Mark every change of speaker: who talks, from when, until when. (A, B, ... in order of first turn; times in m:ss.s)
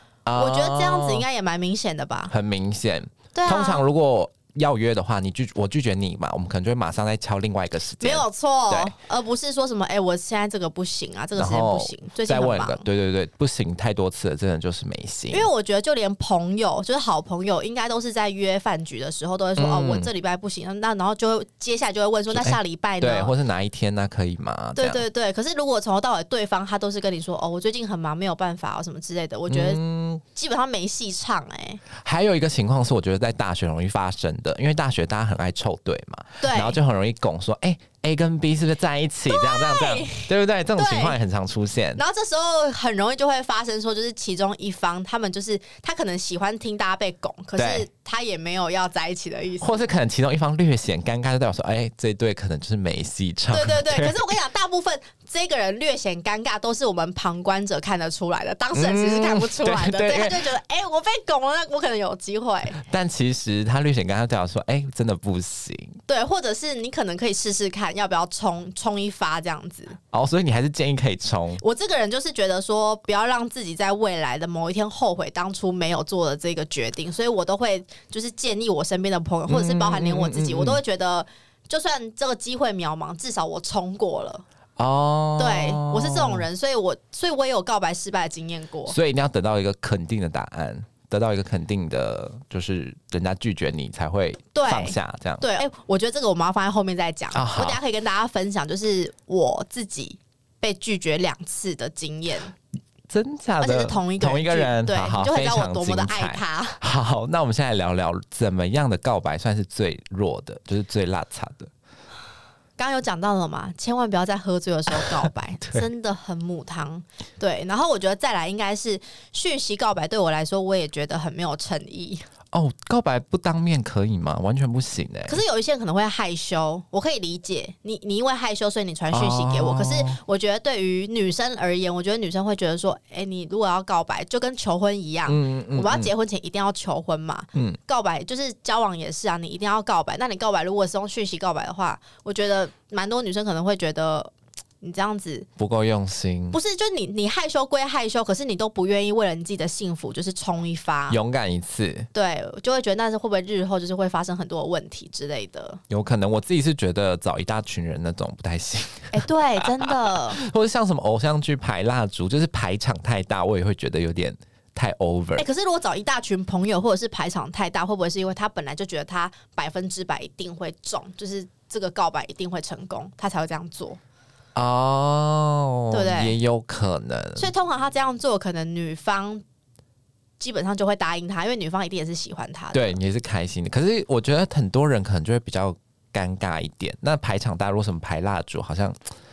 0:00.2-0:01.2 A
0:00.4-0:02.3 B
0:02.3-0:08.9 A
0:03.3-0:03.8 B
0:08.0-0:12.8 B
0:11.4-0:15.5 A
0:15.3-0:23.3 B
0:19.6-0:20.1 A
0:22.3-0:25.0 A
0:24.8-0:31.8 B
0:29.5-0:30.2 A
0:31.9-0:42.0 A
0:36.4-0:36.8 B
0:39.3-0:41.2 B
0:42.0-0:49.8 B
0:47.6-0:47.9 A
0:49.6-0:54.2 A
0:53.5-1:02.8 B
0:58.7-1:00.5 A
1:02.8-1:06.0 A
1:06.1-1:10.0 B
1:10.1-1:11.6 A
1:11.6-1:24.4 B
1:19.5-1:20.8 A
1:24.8-1:26.5 A
1:25.4-1:29.0 B
1:28.9-1:35.5 A
1:34.5-1:42.5 B
1:37.3-1:37.8 A
1:43.1-1:51.7 A
1:43.6-1:46.8 B
1:52.8-2:02.2 B
1:54.9-1:55.8 A
2:02.5-2:05.4 A
2:05.3-2:25.5 B
2:09.1-2:10.2 A
2:15.3-2:16.1 A
2:25.6-2:26.6 A
2:26.5-2:31.2 B
2:31.1-2:32.1 A
2:32.1-2:35.8 B
2:35.9-2:39.2 A
2:39.1-2:40.4 B
2:39.8-2:45.4 A
2:45.4-2:54.0 B
2:54.6-2:57.5 A
2:55.9-2:56.4 B
2:57.4-2:59.4 B
3:00.4-3:03.0 B
3:02.7-3:09.0 A